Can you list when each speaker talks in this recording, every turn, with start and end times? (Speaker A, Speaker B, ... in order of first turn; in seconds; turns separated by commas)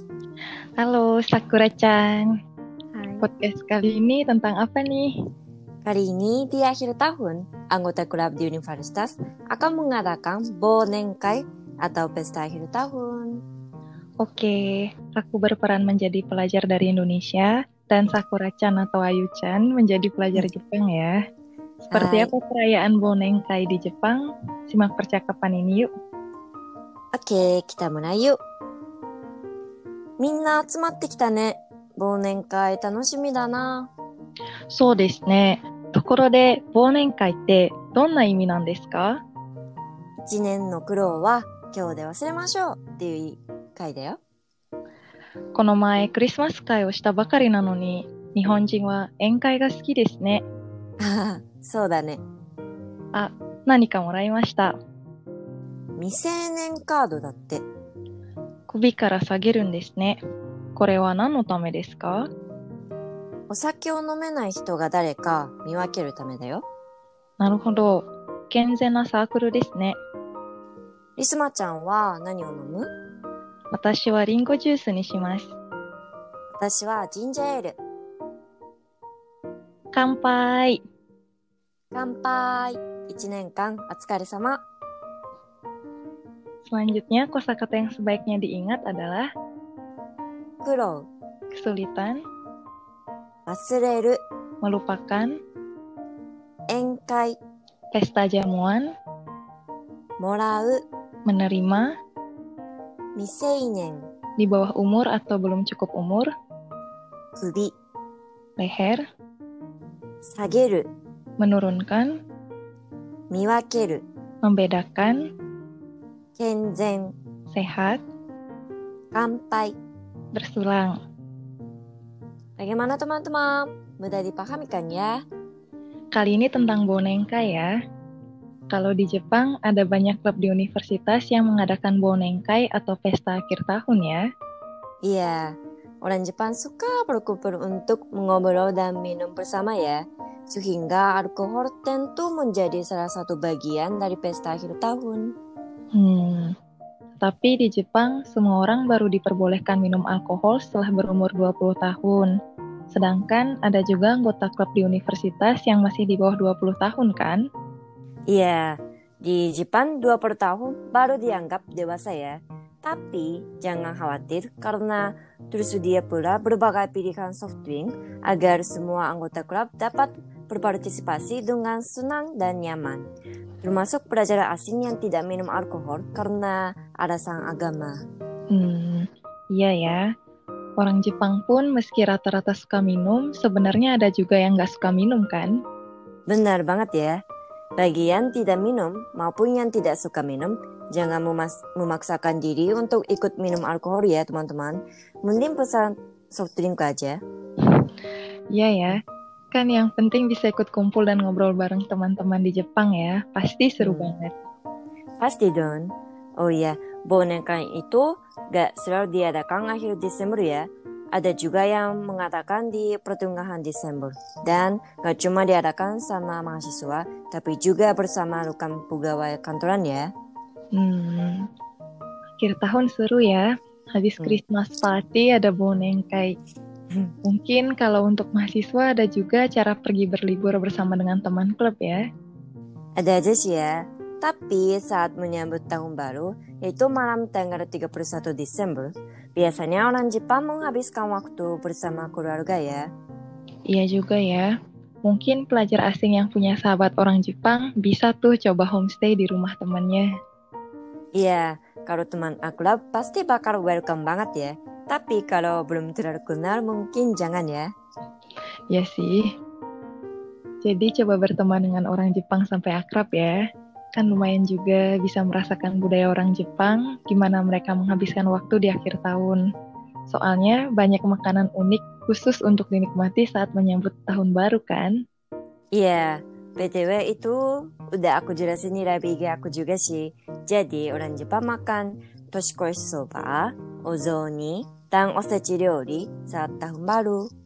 Speaker A: 0.8-2.3, Speaker B: 2.9-3.2, Speaker A: 3.2-5.1, Speaker B: 5.8-13.3, Speaker A: 14.2-21.1, Speaker A: 21.9-25.9, Speaker B: 21.9-22.3, Speaker B: 27.2-28.4, Speaker B: 30.2-33.9, Speaker A: 34.7-39.2, Speaker B: 40.2-44.2, Speaker A: 45.5-50.4, Speaker B: 51.0-52.2, Speaker A: 53.1-54.7, Speaker B: 56.0-57.6, Speaker A: 58.7-60.2, Speaker A: 60.8-62.2, Speaker B: 63.5-66.6, Speaker A: 67.4-70.0, Speaker B: 71.2-72.9, Speaker A: 73.7-75.5, Speaker B: 76.6-77.8, Speaker A: 79.9-80.8, Speaker B: 81.9-84.6, Speaker A: 86.7-89.3, Speaker B: 90.6-91.1, Speaker A: 91.5-92.2, Speaker B: 93.5-94.2, Speaker A: 94.6-95.3, Speaker B: 96.7-97.4, Speaker A: 97.9-98.9, Speaker B: 100.2-100.8, Speaker A: 101.3-101.9, Speaker B: 103.2-104.0, Speaker A: 104.4-106.3, Speaker B: 107.4-107.7, Speaker A: 108.6-109.0, Speaker B: 110.3-110.9, Speaker A: 111.4-112.1, Speaker B: 113.3-114.0, Speaker A: 114.4-115.2, Speaker B: 116.4-117.1, Speaker A: 117.5-118.0, Speaker B: 119.1-119.7, Speaker A: 120.3-120.9, Speaker B: 122.6-125.1, Speaker A: 126.2-127.7, Speaker A: 128.7-134.2, Speaker B: 135.1-135.5, Speaker B: 136.0-140.0, Speaker B: 140.5-145.3, Speaker A: 145.9-146.5, Speaker A: 147.2-152.3, Speaker A: 152.9-157.4, Speaker B: 158.3-173.1, Speaker B: 173.6-177.9, Speaker A: 178.5-180.0, Speaker A: 180.8-185.5, Speaker B: 186.3-187.2, Speaker B: 187.8-197.2, Speaker A: 198.5-199.0, Speaker A: 199.5-204.3, Speaker B: 203.8-204.1, Speaker B: 205.2-205.9, Speaker B: 206.4-220.1, Speaker A: 220.7-221.4, Speaker A: 222.4-226.3, Speaker A: 227.2-232.0, Speaker B: 233.0-242.8, Speaker A: 243.7-244.5, Speaker A: 245.1-250.1, Speaker B: 251.2-257.7, Speaker A: 258.7-259.2, Speaker A: 260.6-263.4, Speaker A: 264.0-269.4, Speaker A: 270.1-274.9, Speaker B: 275.8-277.4, Speaker B: 277.9-287.2